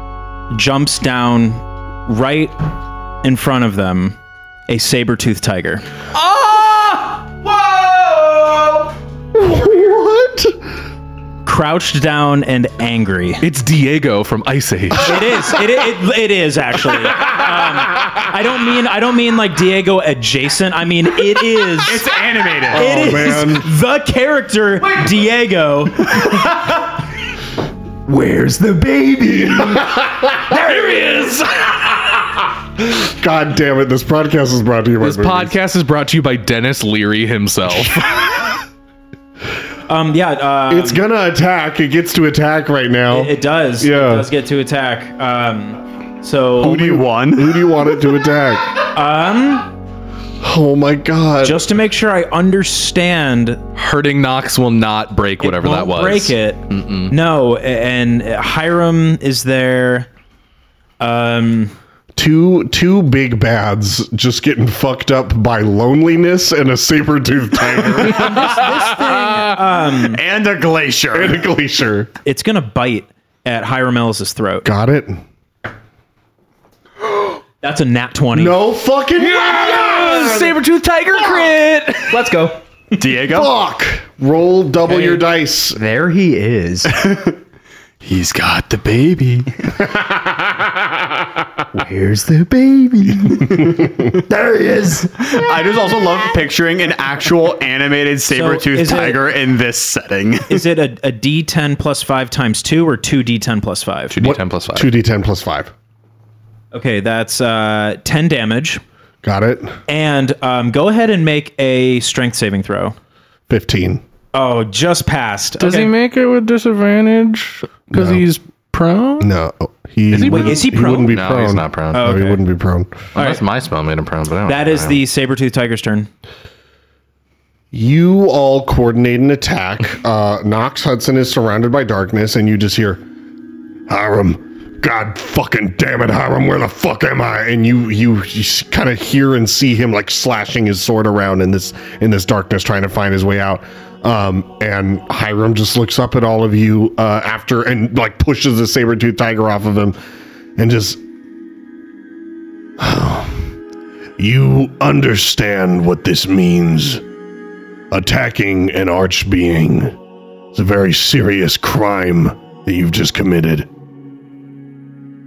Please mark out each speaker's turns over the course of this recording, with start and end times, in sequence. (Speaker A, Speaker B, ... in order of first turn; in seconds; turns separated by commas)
Speaker A: 0.5-2.5, Speaker A: 3.2-4.2, Speaker A: 4.7-5.8, Speaker B: 6.2-7.1, Speaker C: 8.0-8.9, Speaker D: 9.3-10.6, Speaker A: 11.4-13.4, Speaker B: 13.4-15.2, Speaker A: 15.0-22.1, Speaker E: 21.8-22.9, Speaker D: 22.7-23.7, Speaker A: 22.7-26.3, Speaker C: 28.1-29.8, Speaker D: 29.5-30.6, Speaker B: 30.5-31.7, Speaker D: 32.8-35.5, Speaker B: 35.0-38.3, Speaker A: 39.9-41.0, Speaker D: 40.7-44.3, Speaker A: 43.1-46.8, Speaker E: 46.6-47.9, Speaker D: 46.6-48.8, Speaker A: 48.9-49.7, Speaker D: 50.4-51.7, Speaker A: 51.4-53.6, Speaker B: 53.8-57.1, Speaker A: 55.4-60.1, Speaker A: 61.0-61.7, Speaker D: 62.2-68.5, Speaker B: 68.1-68.7, Speaker A: 68.2-70.2, Speaker E: 70.0-71.4, Speaker D: 71.1-72.1, Speaker A: 72.2-74.7, Speaker D: 74.6-75.2, Speaker A: 77.6-78.6, Speaker D: 78.3-80.6, Speaker B: 79.2-82.2, Speaker D: 81.2-81.5, Speaker C: 82.0-82.6, Speaker E: 82.9-83.5, Speaker D: 83.2-85.8, Speaker C: 85.7-87.0, Speaker E: 86.9-87.4, Speaker E: 88.0-89.7, Speaker D: 89.9-91.1, Speaker C: 91.7-95.4, Speaker E: 95.3-100.6, Speaker A: 98.3-99.2, Speaker A: 100.5-104.2, Speaker B: 104.1-104.9, Speaker D: 104.2-105.7, Speaker A: 106.7-108.8, Speaker D: 109.2-109.8, Speaker A: 109.9-113.0, Speaker D: 113.5-114.0, Speaker A: 114.3-115.9, Speaker B: 115.6-119.3, Speaker D: 117.9-118.3, Speaker D: 119.2-123.1, Speaker B: 120.1-122.1, Speaker A: 120.2-121.2, Speaker A: 121.9-122.4, Speaker B: 123.2-125.0, Speaker A: 123.2-123.4, Speaker A: 124.5-126.1, Speaker D: 127.7-133.0, Speaker D: 133.9-150.0, Speaker D: 150.6-151.0, Speaker D: 152.8-153.6, Speaker D: 154.2-157.0, Speaker D: 157.9-159.9, Speaker D: 160.5-163.7